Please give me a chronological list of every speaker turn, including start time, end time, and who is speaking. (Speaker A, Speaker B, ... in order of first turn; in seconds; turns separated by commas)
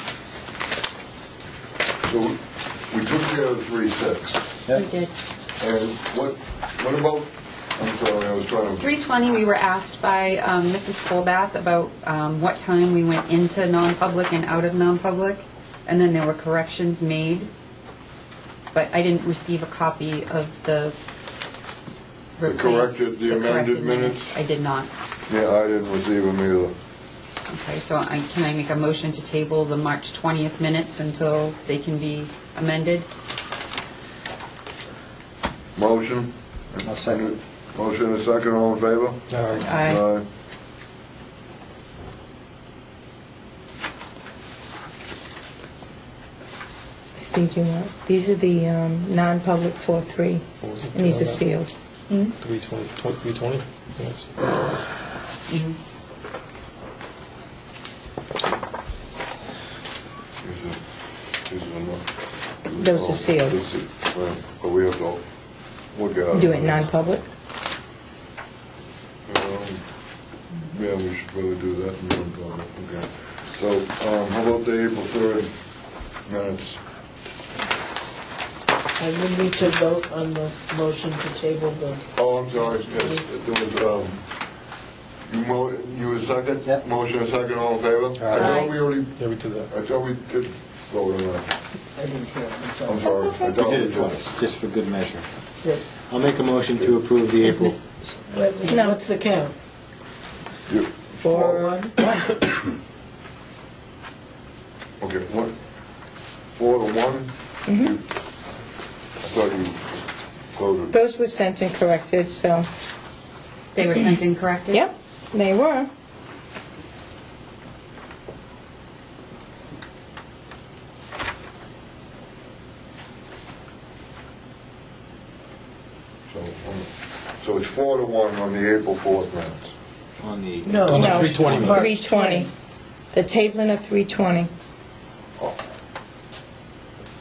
Speaker A: 2.0-2.4, Speaker A: 2.9-4.4, Speaker B: 4.7-5.1, Speaker A: 5.6-8.8, Speaker B: 8.8-17.5, Speaker B: 18.7-20.9, Speaker B: 22.4-24.9, Speaker A: 22.4-24.4, Speaker A: 25.3-26.7, Speaker B: 27.5-33.1, Speaker A: 35.8-39.2, Speaker C: 36.8-37.3, Speaker D: 39.3-39.8, Speaker B: 39.6-40.0, Speaker A: 39.8-40.2, Speaker E: 47.2-50.2, Speaker D: 50.6-51.4, Speaker E: 51.0-51.7, Speaker D: 52.4-54.8, Speaker A: 60.4-60.8, Speaker A: 61.5-62.0, Speaker A: 62.6-65.2, Speaker E: 62.8-63.6, Speaker A: 65.9-66.9, Speaker E: 66.3-67.2, Speaker A: 69.3-69.8, Speaker A: 70.7-75.5, Speaker A: 76.2-76.8, Speaker F: 79.0-83.2, Speaker A: 82.2-84.2, Speaker A: 85.2-91.5, Speaker D: 88.2-89.7, Speaker B: 88.4-88.7, Speaker F: 92.0-93.0, Speaker A: 92.8-94.2, Speaker B: 93.0-93.5, Speaker C: 93.4-95.2, Speaker F: 95.6-95.8, Speaker C: 96.0-97.8, Speaker B: 97.4-98.9, Speaker F: 98.3-99.5, Speaker A: 100.7-101.7, Speaker F: 101.2-102.0, Speaker E: 101.2-102.2, Speaker A: 105.0-105.5, Speaker A: 106.5-108.0, Speaker A: 109.2-109.9, Speaker A: 110.5-110.9, Speaker E: 110.9-112.6, Speaker B: 113.7-114.9, Speaker E: 114.7-115.8, Speaker A: 126.3-126.9, Speaker A: 127.4-129.7, Speaker C: 130.2-131.9, Speaker F: 130.6-132.5, Speaker D: 130.8-131.8, Speaker E: 131.1-132.5, Speaker E: 133.1-134.5